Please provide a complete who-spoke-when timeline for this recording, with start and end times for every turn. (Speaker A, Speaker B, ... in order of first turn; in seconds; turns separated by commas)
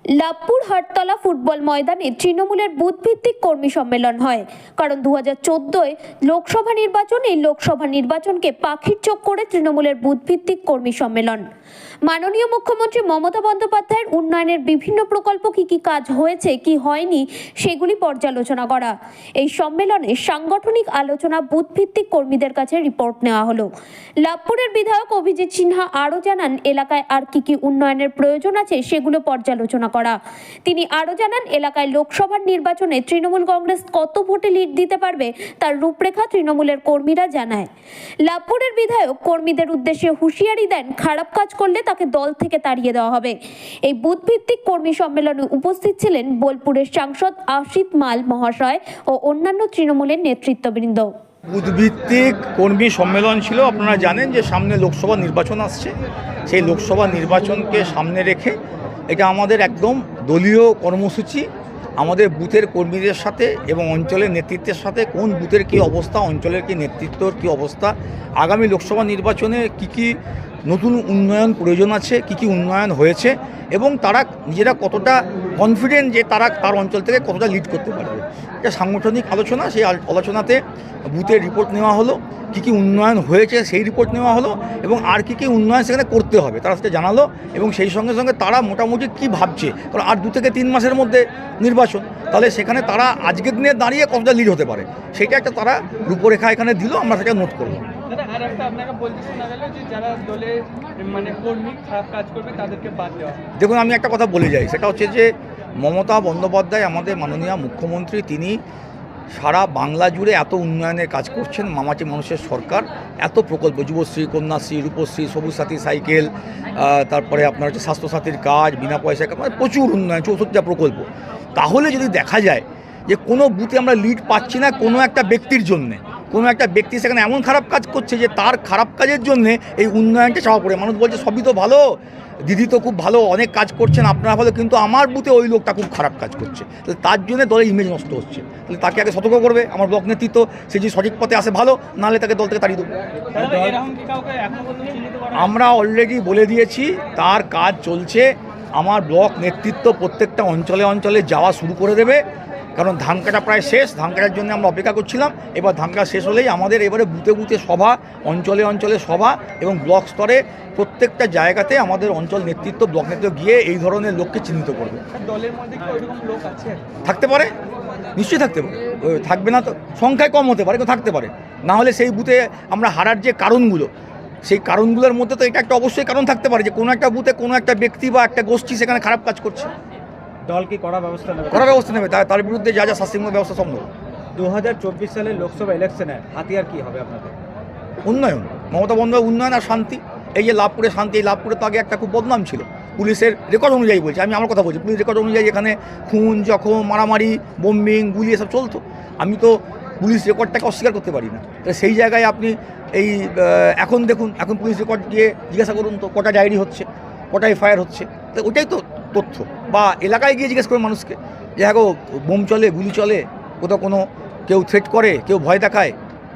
Speaker A: 0.1-11.4, Speaker A: 12.1-23.7, Speaker A: 24.2-37.7, Speaker A: 38.2-51.1, Speaker B: 51.5-55.9, Speaker B: 56.5-58.6, Speaker B: 59.1-61.5, Speaker B: 62.0-97.9, Speaker C: 98.1-103.4, Speaker B: 103.6-108.6, Speaker B: 109.3-142.9, Speaker D: 143.3-143.7, Speaker C: 143.3-145.5, Speaker B: 145.3-152.2, Speaker B: 152.7-165.0, Speaker C: 165.1-166.8, Speaker B: 167.0-167.5, Speaker B: 168.1-173.9, Speaker B: 174.4-179.7, Speaker D: 180.4-181.8, Speaker B: 181.5-183.9, Speaker D: 184.3-187.3, Speaker B: 188.0-215.9